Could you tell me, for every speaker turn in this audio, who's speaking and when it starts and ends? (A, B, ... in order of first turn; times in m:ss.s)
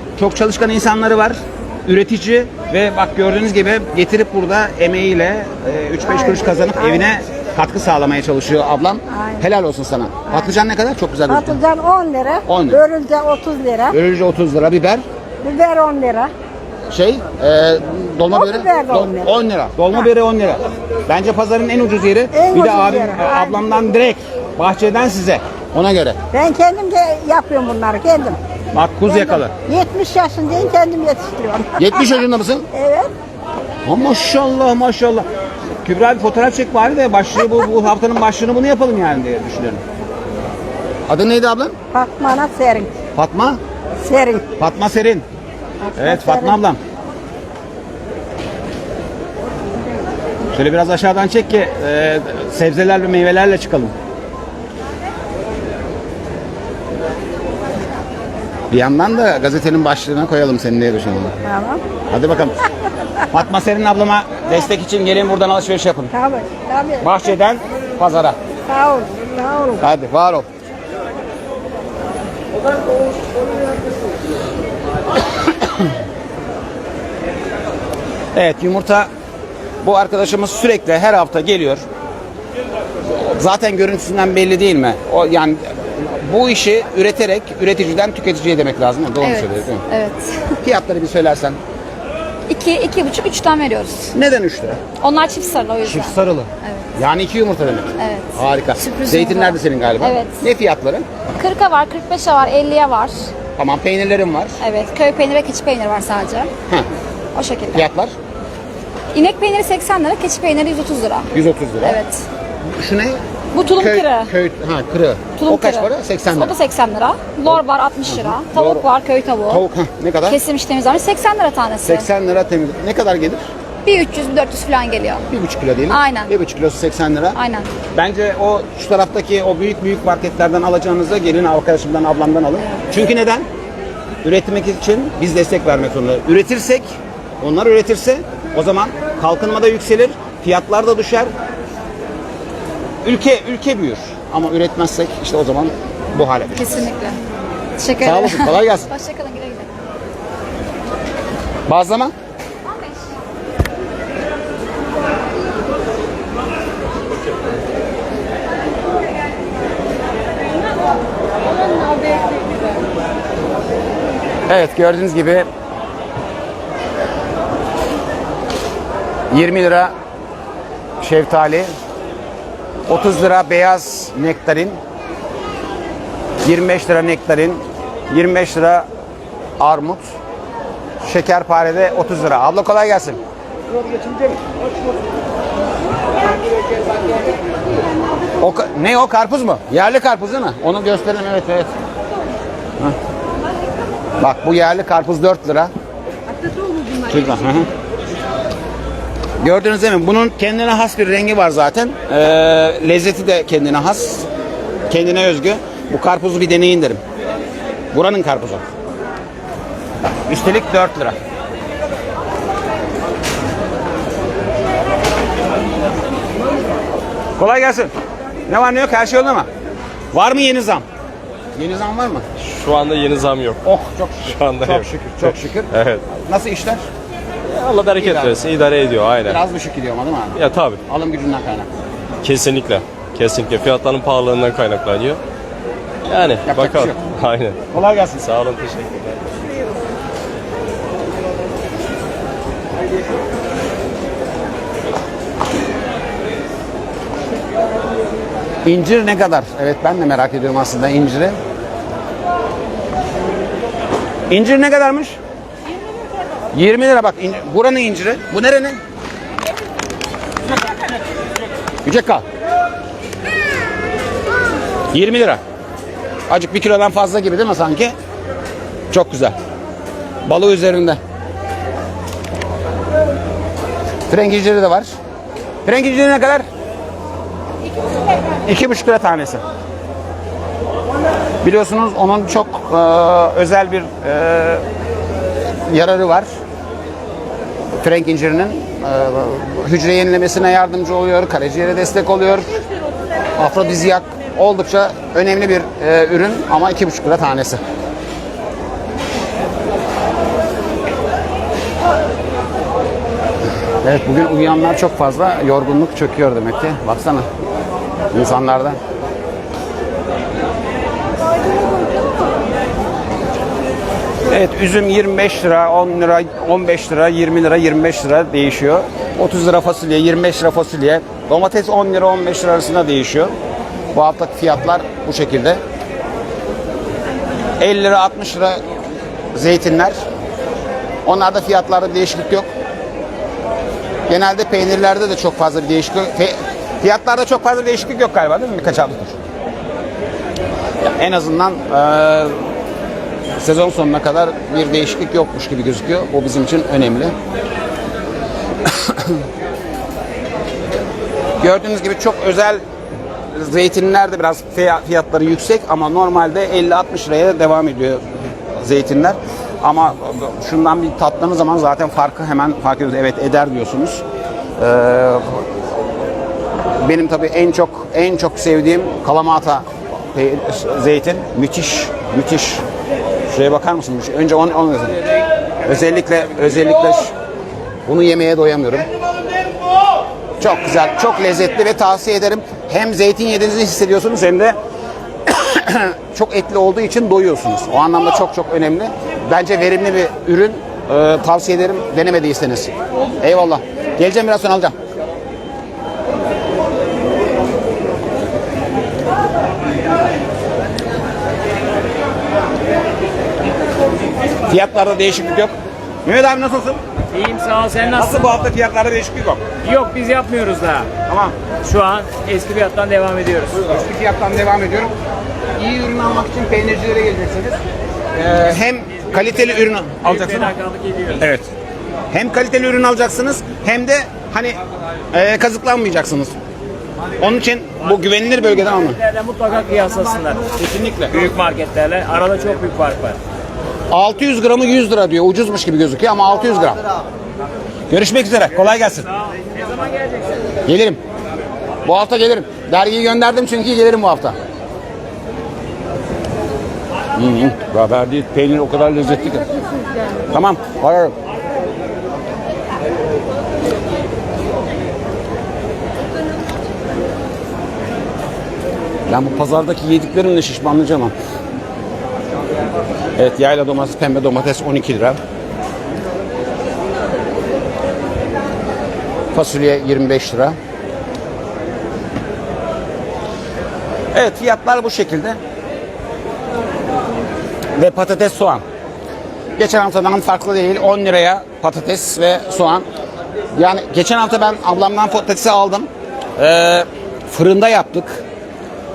0:00.2-0:11.6 A
0:06.1-0:07.0 B
0:09.1-0:09.5 B
0:11.3-0:14.0 B
0:12.5-0:12.8 A
0:13.9-0:15.0 A
0:15.4-0:16.3 B
0:16.9-0:26.2 A
0:18.3-0:19.3 B
0:22.3-0:23.6 B
0:26.3-0:28.4 B
0:28.7-0:29.5 A
0:29.1-0:32.2 B
0:31.8-0:32.7 A
0:32.7-0:33.1 B
0:33.8-0:35.2 A
0:35.8-0:39.8 A
0:41.1-0:41.8 A
0:41.9-0:42.9 B
0:43.2-0:43.6 A
0:44.0-0:44.5 B
0:44.6-0:45.2 A
0:45.8-0:46.6 B
0:46.0-0:46.8 A
0:50.5-0:53.9 A
0:58.7-1:01.3 A
1:01.5-1:01.8 B
1:02.1-1:02.6 A
1:03.3-1:06.1 A
1:06.1-1:07.1 B
1:07.0-1:08.4 A
1:08.7-1:09.8 B
1:09.8-1:10.4 A
1:18.4-1:19.1 A
1:19.8-1:21.8 A
1:23.1-1:29.8 A
1:29.2-1:30.6 C
1:30.6-1:31.6 A
1:32.5-1:34.1 C
1:34.1-1:34.8 A
1:35.0-1:36.9 C
1:35.8-1:41.1 A
1:38.0-1:40.4 C
1:41.4-1:43.2 C
1:43.6-1:44.6 A
1:44.6-1:46.5 C
1:47.4-1:47.8 C
1:47.7-1:48.1 A
1:49.1-1:51.3 C
1:51.3-1:52.0 A
1:51.8-1:52.2 C
1:52.8-1:53.2 A
1:53.5-1:54.3 C
1:53.8-1:56.5 A
1:55.4-1:59.6 C
1:57.5-1:58.8 A
1:59.5-2:00.4 A
2:00.3-2:02.1 C
2:01.8-2:03.5 A
2:03.8-2:05.3 C
2:05.3-2:07.4 A
2:05.9-2:06.3 C
2:07.4-2:07.7 C
2:07.9-2:13.5 A
2:14.2-2:16.9 A
2:17.4-2:21.3 A
2:23.0-2:26.8 A
2:26.6-2:27.2 C
2:27.8-2:29.7 C
2:28.0-2:28.9 A
2:31.7-2:32.1 A
2:44.5-2:45.5 A
2:49.3-2:49.9 A
2:51.0-2:51.7 A
2:52.9-2:54.8 A
2:56.4-2:58.9 A
2:59.6-3:00.0 A
3:01.0-3:03.2 A
3:08.4-3:11.7 A
3:14.2-3:15.7 A
3:17.1-3:17.7 A
3:19.4-3:24.3 A
3:24.9-3:27.0 A
3:27.9-3:28.6 A
3:30.3-3:31.2 A
3:37.4-3:37.9 A
3:38.5-3:39.5 A
3:40.1-3:40.8 A
3:41.6-3:42.2 A
3:42.4-3:43.6 D
3:43.6-3:46.8 A
3:44.2-3:46.0 D
3:47.5-3:49.4 D
3:48.0-3:48.4 A
3:49.2-3:51.7 A
3:50.4-3:50.8 D
3:52.2-3:55.2 D
3:56.1-3:57.6 D
3:56.4-3:57.0 A
3:57.7-3:58.2 A
3:58.2-3:59.2 D
4:08.6-4:11.4 A
4:14.3-4:15.2 A
4:16.5-4:18.8 A
4:21.8-4:22.2 A
4:24.9-4:25.4 A
4:26.3-4:28.0 A
4:28.9-4:29.4 A
4:30.3-4:31.0 A
4:34.1-4:34.9 A
4:35.7-4:36.4 A
4:38.4-4:39.4 A
4:41.4-4:44.6 A
4:45.6-4:46.3 A
4:47.8-4:52.5 A
4:53.4-4:57.6 A
5:03.8-5:07.3 A
5:08.1-5:08.8 A
5:14.3-5:23.3 A
5:23.9-5:25.6 A
5:27.6-5:28.6 A
5:29.3-5:30.0 A
5:31.0-5:32.5 A
5:34.1-5:39.2 A
5:41.0-5:42.4 A
5:43.4-5:47.1 A
5:48.7-5:49.2 A
5:51.4-5:52.6 A
5:53.3-5:58.0 A
5:58.6-6:04.0 A
6:04.6-6:05.4 A
6:06.8-6:12.6 A
6:13.3-6:15.0 A
6:15.6-6:17.1 A
6:17.9-6:18.9 A
6:20.4-6:24.6 A
6:25.3-6:34.7 A
6:44.5-6:45.5 A
6:46.0-6:46.8 A
6:47.1-6:48.4 E
6:48.0-6:49.4 A
6:49.6-6:50.9 E
6:51.1-6:51.3 A
6:51.6-6:53.7 E
6:53.7-6:54.9 A
6:55.6-6:57.6 A
6:58.2-7:00.5 A
7:00.0-7:01.2 E
7:01.2-7:01.5 A
7:02.1-7:04.6 A
7:05.1-7:06.4 A
7:07.2-7:09.0 A
7:08.8-7:10.6 E
7:10.6-7:11.1 A
7:11.1-7:13.2 E
7:13.9-7:16.8 A
7:17.9-7:19.1 A
7:20.7-7:21.0 A
7:21.8-7:24.4 A
7:27.2-7:29.5 A
7:30.3-7:31.1 A
7:39.1-7:41.1 A
7:43.2-7:45.2 A
7:49.3-7:50.6 A
7:54.1-7:55.4 A
7:57.8-7:58.6 A
7:59.6-8:02.8 A
8:03.6-8:08.2 A